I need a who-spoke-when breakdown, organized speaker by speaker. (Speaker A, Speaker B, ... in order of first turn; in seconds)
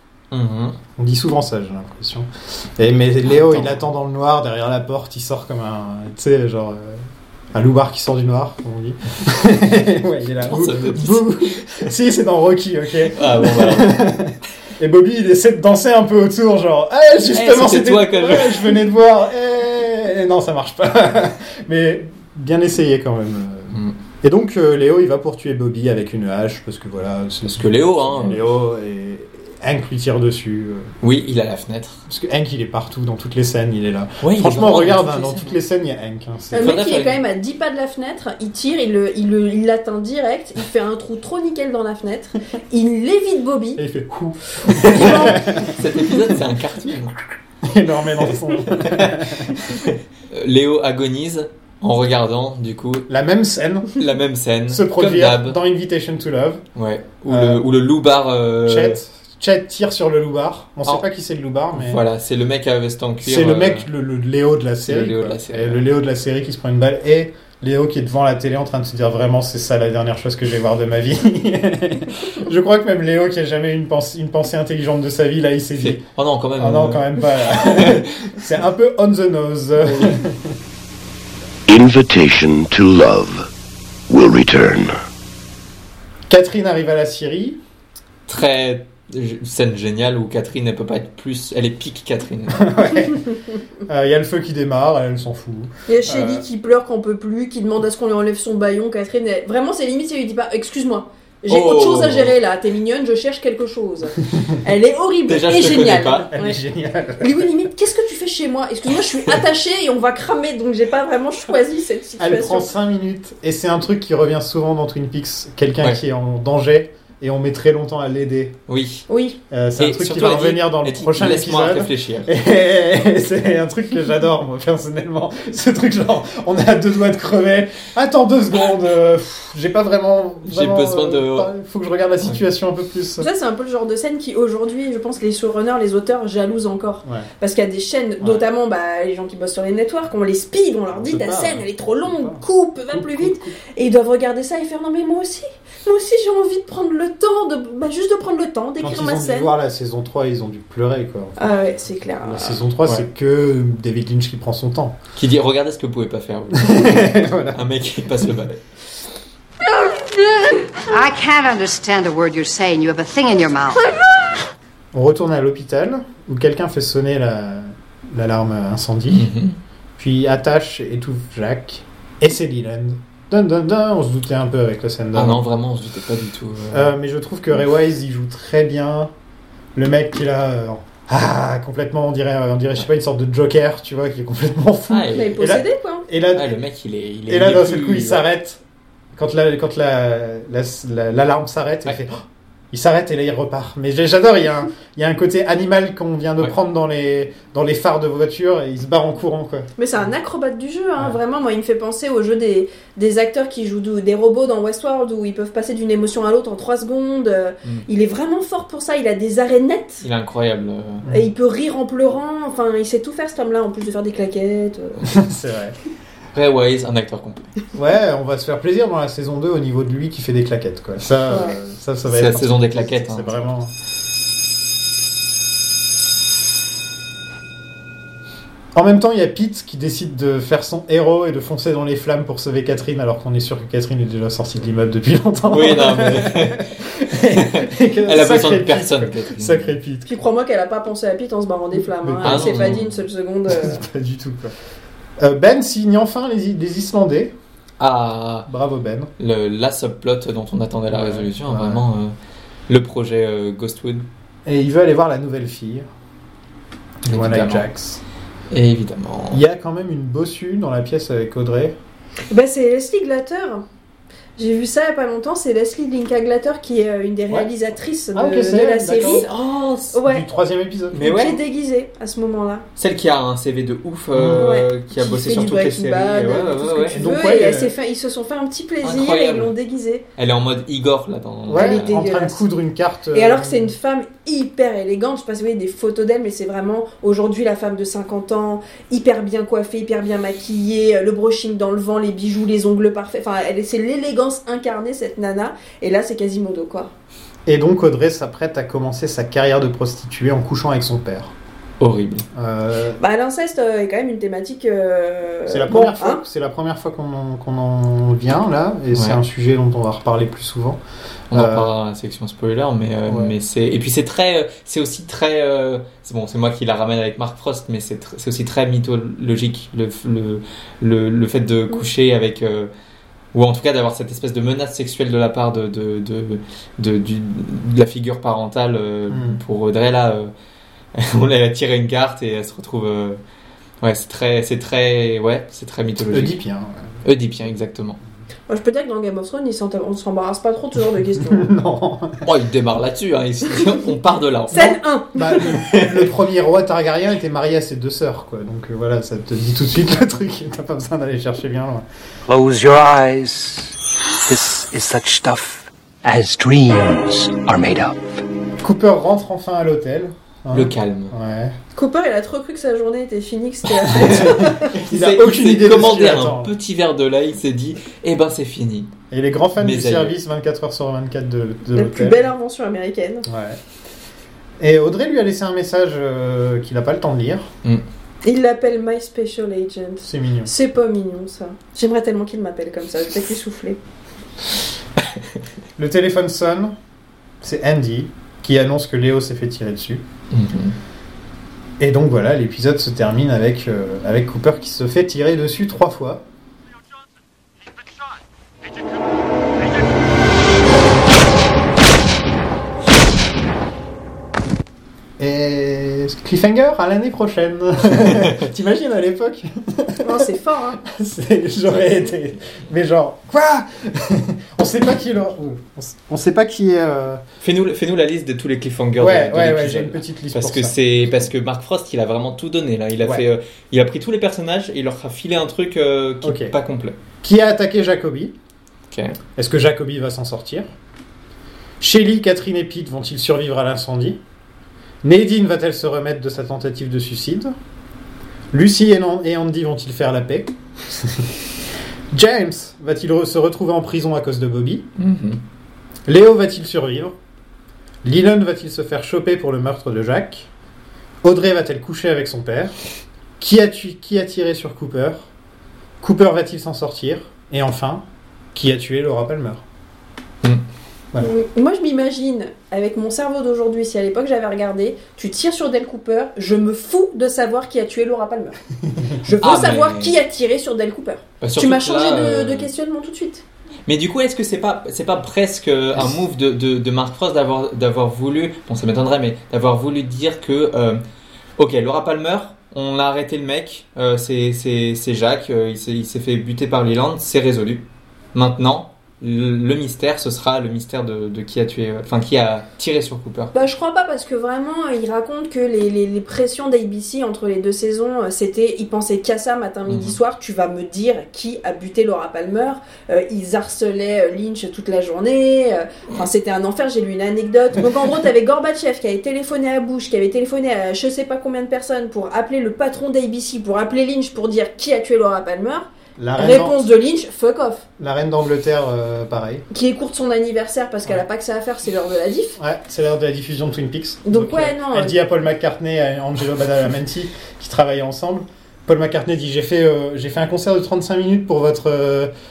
Speaker A: 0.3-0.8, 3.2-3.8, 10.4-11.9, 13.1-14.1, 17.3-18.8, 27.5-28.4, 31.0-32.0, 34.2-35.6, 36.5-37.2, 44.7-47.1, 48.7-53.1, 54.0-55.6, 56.8-59.0, 61.7-63.9, 64.8-65.8, 75.8-78.1, 79.8-80.2, 88.3-92.7, 101.5-102.3, 105.3-106.3, 118.7-119.0, 119.8-122.3, 130.4-131.5, 155.2-158.6, 169.1-169.6, 175.1-176.9, 184.9-185.4, 186.3-188.2, 210.0-211.0, 216.3-217.5, 222.1-223.3, 235.5-236.7, 237.3-239.7, 242.2-242.9, 247.8-248.5, 249.2-252.1, 252.7-254.0, 257.1-257.7, 258.5-259.4, 268.9-270.0, 270.9-271.4, 272.8-277.0, 278.8-279.5, 280.2-281.9, 301.8-302.2, 308.9-309.2, 311.3-322.7, 323.3-330.3, 330.9-333.2, 333.8-336.4, 337.0-338.0, 342.2-344.8, 345.7-346.1, 360.5-361.1, 364.0-368.9, 369.6-370.1, 390.3-390.8, 417.4-426.9, 428.9-429.2, 445.0-445.4, 469.4-470.1, 471.4-472.7, 473.9-481.0, 481.6-493.5, 499.9-500.2
Speaker B: 0.9-30.9, 32.1-36.7, 43.8-46.3, 47.6-49.6, 53.1-53.9, 54.7-56.6, 57.3-57.6, 58.6-62.0, 63.2-76.0, 76.6-80.5, 86.3-87.6, 92.5-96.4, 106.3-107.5, 112.2-118.6, 119.5-133.3, 140.9-143.6, 148.8-155.0, 156.6-157.6, 164.9-169.3, 170.0-175.4, 176.7-179.1, 179.7-186.5, 187.3-188.6, 189.2-199.7, 215.0-215.8, 217.7-223.7, 228.7-240.1, 241.7-242.8, 243.5-244.5, 245.2-247.3, 248.5-249.1, 250.9-251.8, 254.4-255.8, 257.0-258.0, 259.3-261.8, 268.1-269.2, 270.0-271.3, 274.1-274.6, 276.9-277.7, 281.5-283.7, 297.4-301.3, 302.3-303.0, 305.5-310.8, 311.3-311.7, 313.1-313.3, 329.1-329.4, 336.0-336.9, 341.2-342.2, 345.1-351.9, 358.6-361.6, 364.0-366.5, 369.1-372.3, 373.2-373.6, 374.6-377.5, 380.0-380.5, 385.8-386.7, 387.4-390.0, 391.8-396.2, 405.2-410.2, 410.8-417.2, 419.0-421.3, 426.2-426.5, 427.2-428.3, 429.4-430.7, 431.8-434.2, 435.0-437.5, 438.5-441.3, 442.1-444.9, 446.1-447.1, 448.0-450.5, 451.2-452.7, 453.4-455.3, 456.0-459.6, 516.2-516.8, 518.0-519.6, 522.6-532.3
Speaker C: 36.5-43.8, 44.9-45.3, 95.9-106.6, 107.2-112.7, 119.1-119.4, 133.2-149.5, 151.4-152.6, 185.1-186.1, 199.8-210.0, 211.1-215.1, 240.1-243.8, 262.3-263.6, 264.4-269.2, 269.9-270.2, 271.0-272.6, 274.4-280.0, 281.6-282.4, 283.1-296.9, 303.0-306.2, 338.5-341.5, 344.5-345.6, 361.7-364.7, 371.7-373.3, 378.2-383.8, 410.0-410.8, 461.2-468.6, 469.2-473.4, 493.5-517.9, 519.7-522.6, 524.2-525.1
Speaker D: 81.7-83.5, 84.1-85.0
Speaker E: 160.9-163.8
Speaker F: 352.3-353.7, 354.2-358.0